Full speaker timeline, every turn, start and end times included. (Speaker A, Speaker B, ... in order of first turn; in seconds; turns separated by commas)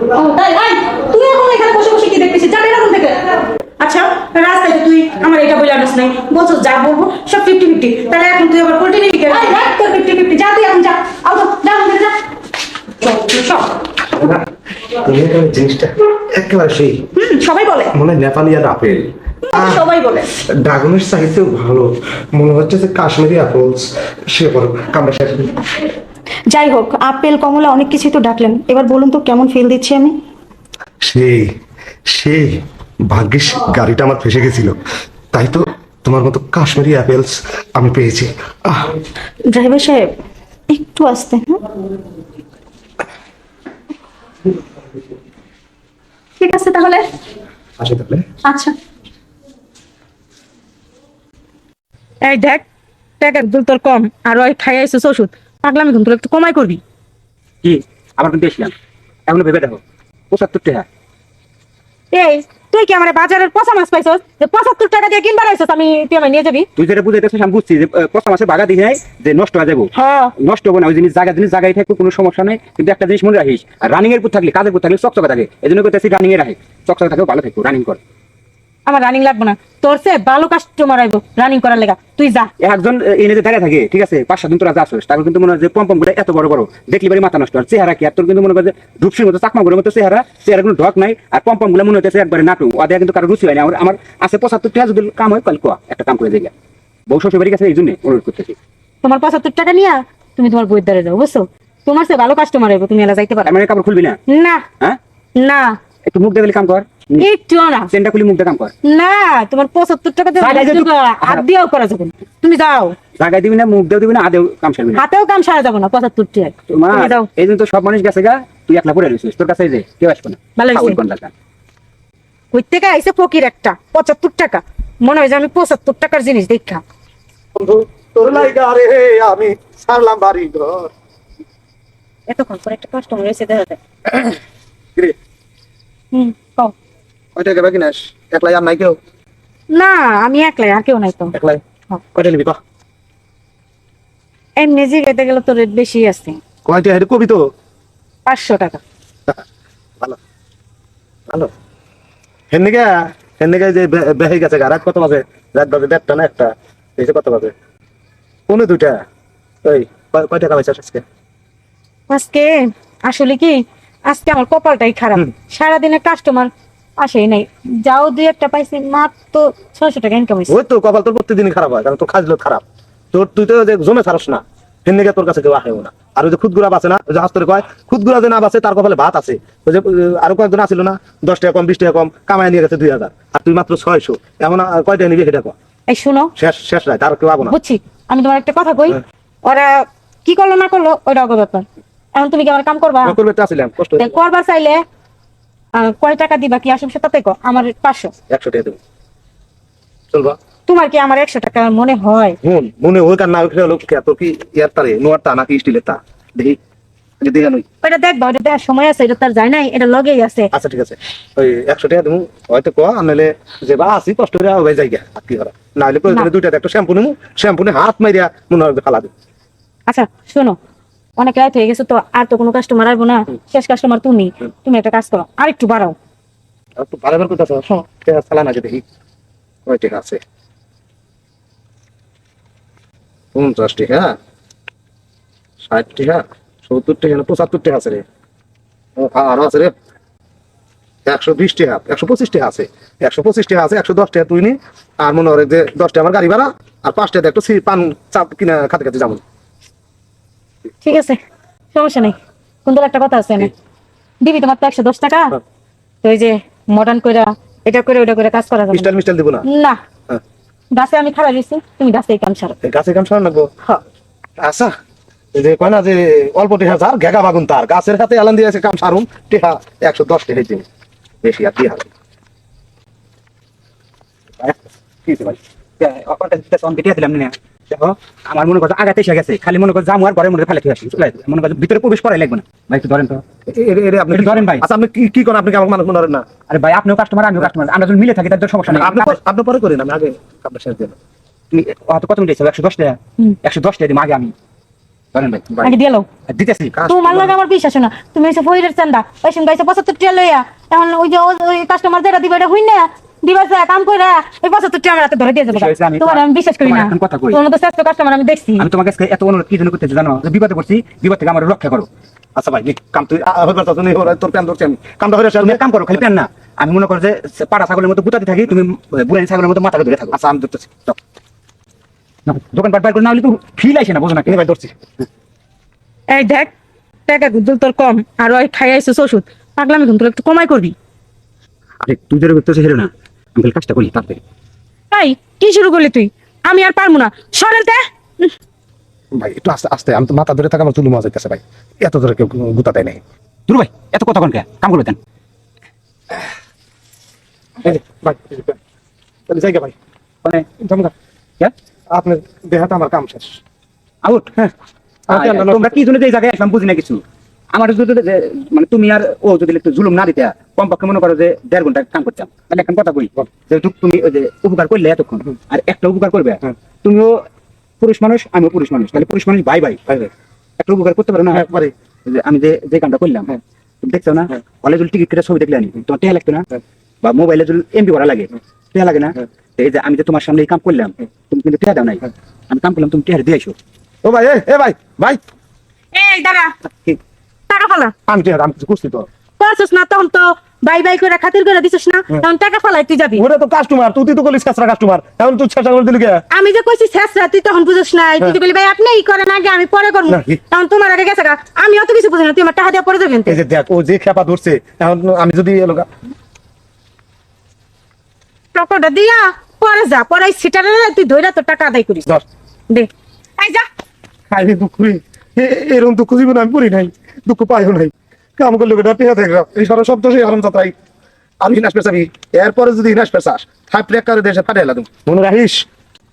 Speaker A: 0.1-7.3, Speaker B: 3.8-9.6, Speaker A: 9.3-12.2, Speaker A: 13.1-13.6, Speaker C: 14.1-17.1, Speaker A: 17.2-17.9, Speaker C: 17.9-19.8, Speaker A: 19.4-20.3, Speaker C: 20.6-25.6, Speaker B: 26.5-30.1, Speaker D: 26.6-28.7, Speaker D: 29.7-30.1, Speaker C: 31.0-31.5, Speaker C: 32.1-32.5, Speaker C: 33.1-34.8, Speaker C: 35.3-38.9, Speaker D: 39.5-40.1, Speaker D: 40.7-41.6, Speaker B: 46.4-47.0, Speaker C: 47.8-48.2, Speaker B: 52.2-52.6, Speaker B: 53.2-56.8, Speaker E: 57.6-58.7, Speaker E: 59.3-60.9, Speaker B: 62.1-66.7, Speaker E: 66.8-78.0, Speaker B: 69.9-70.3, Speaker B: 78.9-82.5, Speaker E: 82.6-96.5, Speaker E: 97.1-98.6, Speaker B: 99.0-103.5, Speaker E: 103.5-104.2, Speaker B: 104.3-104.6, Speaker B: 105.4-105.8, Speaker E: 106.1-107.3, Speaker B: 107.2-107.9, Speaker E: 107.9-108.7, Speaker B: 108.8-113.0, Speaker E: 110.4-111.5, Speaker E: 113.2-115.0, Speaker B: 115.0-117.3, Speaker E: 116.7-121.3, Speaker B: 120.6-121.0, Speaker B: 122.5-126.8, Speaker C: 127.5-130.9, Speaker B: 132.3-133.8, Speaker B: 136.1-136.8, Speaker C: 137.3-139.0, Speaker B: 139.7-141.4, Speaker C: 141.3-141.6, Speaker C: 142.1-142.6, Speaker B: 144.6-146.4, Speaker C: 146.7-147.4, Speaker B: 148.3-148.8, Speaker C: 152.5-157.5, Speaker C: 158.5-159.0, Speaker C: 159.7-161.0, Speaker B: 162.1-170.6, Speaker C: 170.5-185.5, Speaker B: 185.9-186.3, Speaker C: 186.4-187.6, Speaker B: 187.4-193.2, Speaker C: 193.0-194.1, Speaker B: 194.0-194.8, Speaker B: 195.7-198.1, Speaker C: 198.3-198.8, Speaker C: 200.1-200.4, Speaker B: 200.7-202.4, Speaker C: 202.4-206.6, Speaker C: 207.2-207.6, Speaker B: 207.8-210.5, Speaker C: 210.5-219.1, Speaker B: 219.9-220.6, Speaker B: 221.2-226.0, Speaker C: 226.8-228.8, Speaker C: 229.7-230.2, Speaker C: 233.3-234.2, Speaker C: 235.7-238.0, Speaker C: 239.0-239.7, Speaker C: 241.1-249.2, Speaker B: 250.8-251.2, Speaker B: 251.7-253.5, Speaker B: 254.2-255.4, Speaker B: 256.0-258.9, Speaker C: 258.7-259.5, Speaker B: 259.4-259.8, Speaker B: 260.7-262.6, Speaker C: 262.6-263.5, Speaker C: 264.4-264.7, Speaker C: 265.3-270.6, Speaker C: 271.2-271.9, Speaker E: 274.4-283.2, Speaker C: 283.5-286.2, Speaker E: 284.1-284.6, Speaker E: 286.5-289.1, Speaker C: 288.7-290.9, Speaker E: 291.5-294.3, Speaker E: 295.1-295.5, Speaker C: 295.5-295.8, Speaker B: 295.6-296.1, Speaker E: 296.3-296.8, Speaker C: 296.7-297.4, Speaker B: 296.9-308.7, Speaker E: 305.5-307.4, Speaker E: 308.6-311.9, Speaker C: 312.4-315.6, Speaker E: 315.4-320.2, Speaker C: 320.1-320.9, Speaker E: 322.3-324.4, Speaker C: 324.3-324.7, Speaker B: 326.1-326.5, Speaker B: 327.1-330.7, Speaker E: 331.8-334.2, Speaker B: 334.9-338.3, Speaker C: 339.2-343.0, Speaker E: 343.5-345.0, Speaker C: 347.6-348.6, Speaker C: 349.3-349.8, Speaker E: 350.2-351.5, Speaker C: 351.9-353.4, Speaker E: 354.0-354.5, Speaker C: 355.1-355.8, Speaker E: 355.1-367.2, Speaker E: 367.8-369.8, Speaker E: 370.6-371.5, Speaker C: 371.3-371.7, Speaker E: 372.1-376.5, Speaker E: 377.0-383.6, Speaker C: 384.0-385.2, Speaker B: 385.9-386.6, Speaker B: 387.5-387.9, Speaker C: 388.1-389.1, Speaker B: 389.4-393.2, Speaker C: 393.2-396.2, Speaker B: 396.3-403.4, Speaker C: 400.1-400.4, Speaker C: 403.3-405.9, Speaker B: 408.5-412.1, Speaker B: 412.7-413.7, Speaker C: 414.3-420.7, Speaker C: 421.4-425.7